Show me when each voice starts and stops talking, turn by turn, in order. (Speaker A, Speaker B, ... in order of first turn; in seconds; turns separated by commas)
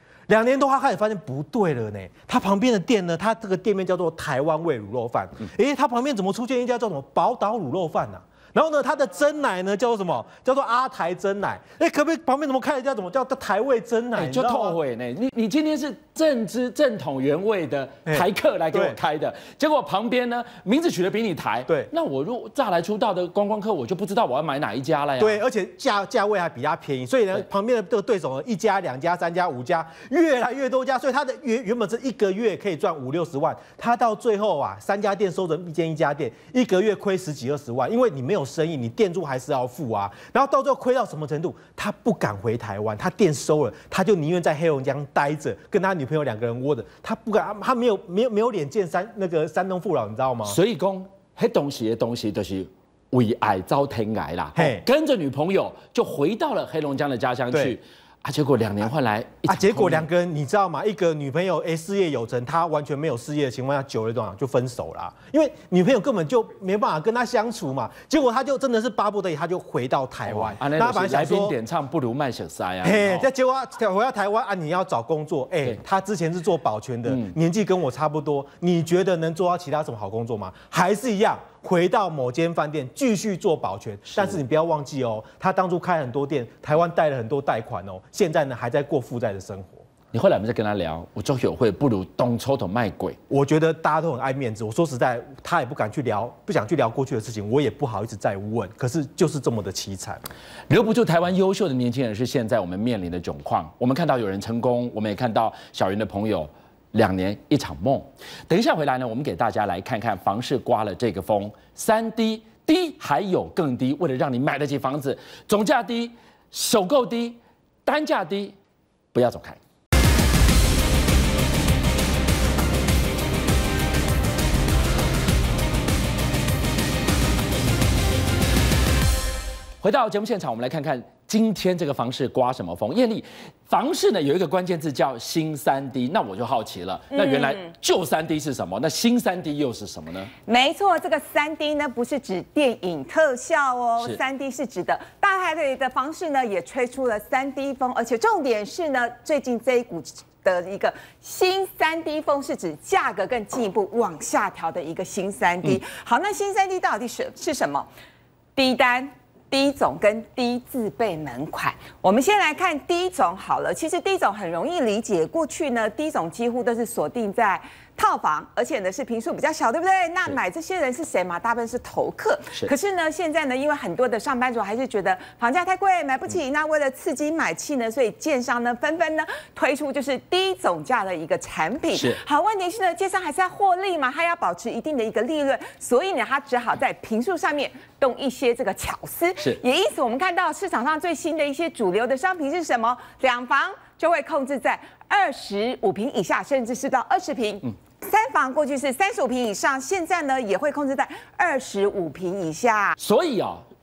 Speaker A: 0.3-14.8, Speaker B: 14.1-25.4, Speaker A: 18.1-19.0, Speaker A: 25.2-50.6, Speaker B: 50.4-60.0, Speaker A: 54.5-54.8, Speaker A: 57.5-57.8, Speaker A: 59.5-71.5, Speaker B: 70.3-73.3, Speaker A: 72.8-89.8, Speaker B: 77.1-77.3, Speaker B: 84.1-84.4, Speaker B: 90.1-93.2, Speaker A: 93.3-100.2, Speaker B: 100.7-118.5, Speaker B: 119.1-119.6, Speaker B: 129.8-140.3, Speaker C: 137.1-137.6, Speaker C: 140.4-157.9, Speaker C: 158.6-203.0, Speaker B: 181.9-182.2, Speaker B: 203.0-203.6